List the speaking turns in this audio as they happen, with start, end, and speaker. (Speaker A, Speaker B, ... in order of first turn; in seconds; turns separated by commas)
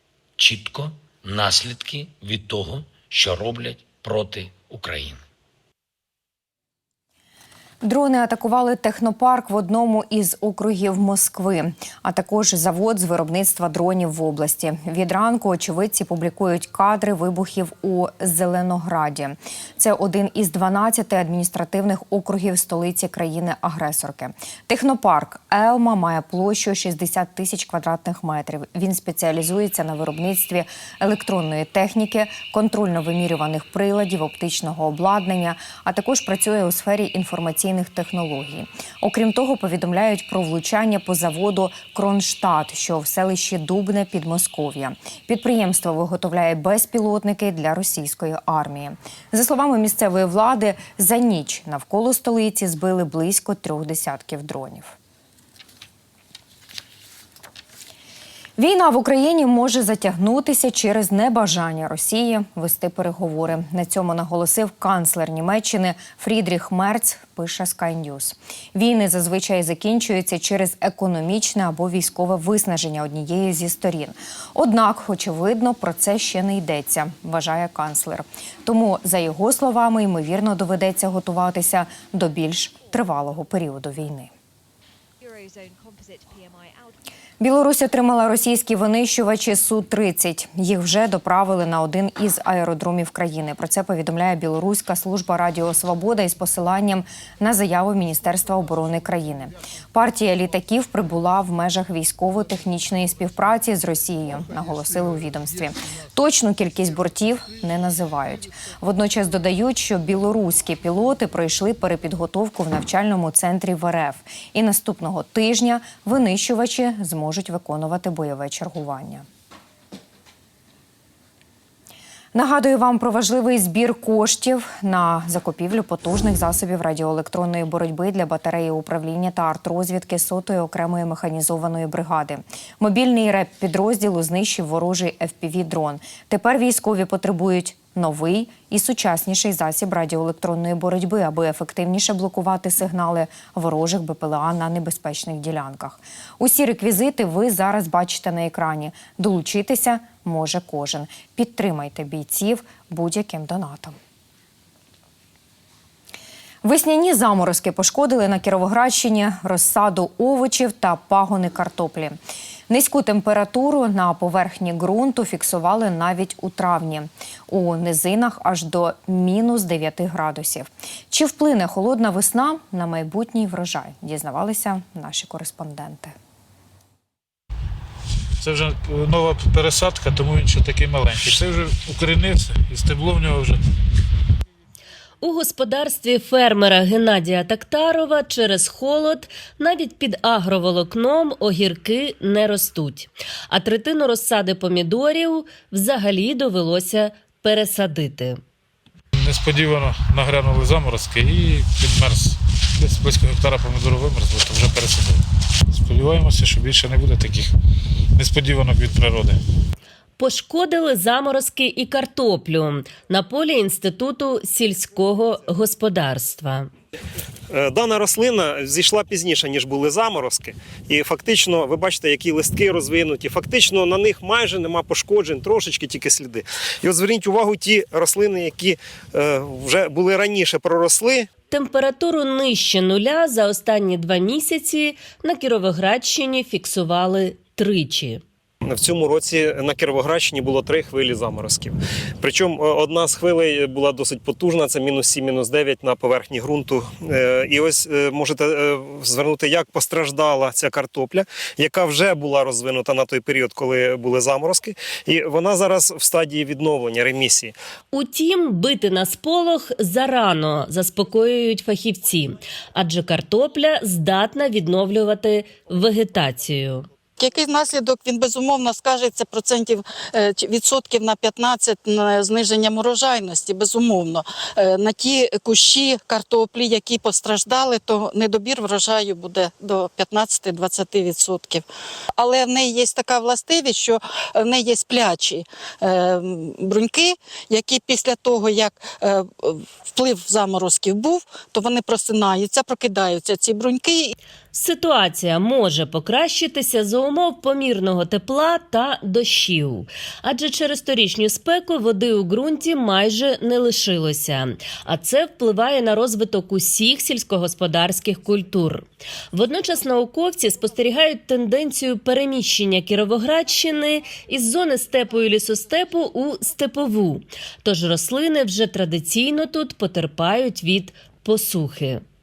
Speaker A: 0.4-5.2, Speaker B: 7.8-55.0, Speaker B: 58.6-84.3, Speaker B: 87.4-119.2, Speaker B: 122.3-154.0, Speaker B: 156.6-162.2, Speaker B: 162.7-176.2, Speaker C: 178.4-183.6, Speaker D: 185.2-198.4, Speaker C: 199.2-207.5, Speaker C: 208.2-209.4, Speaker D: 210.2-216.7, Speaker E: 217.5-231.3, Speaker D: 231.5-238.2, Speaker E: 238.6-257.6, Speaker D: 257.9-266.9, Speaker F: 267.2-294.1, Speaker D: 294.5-322.0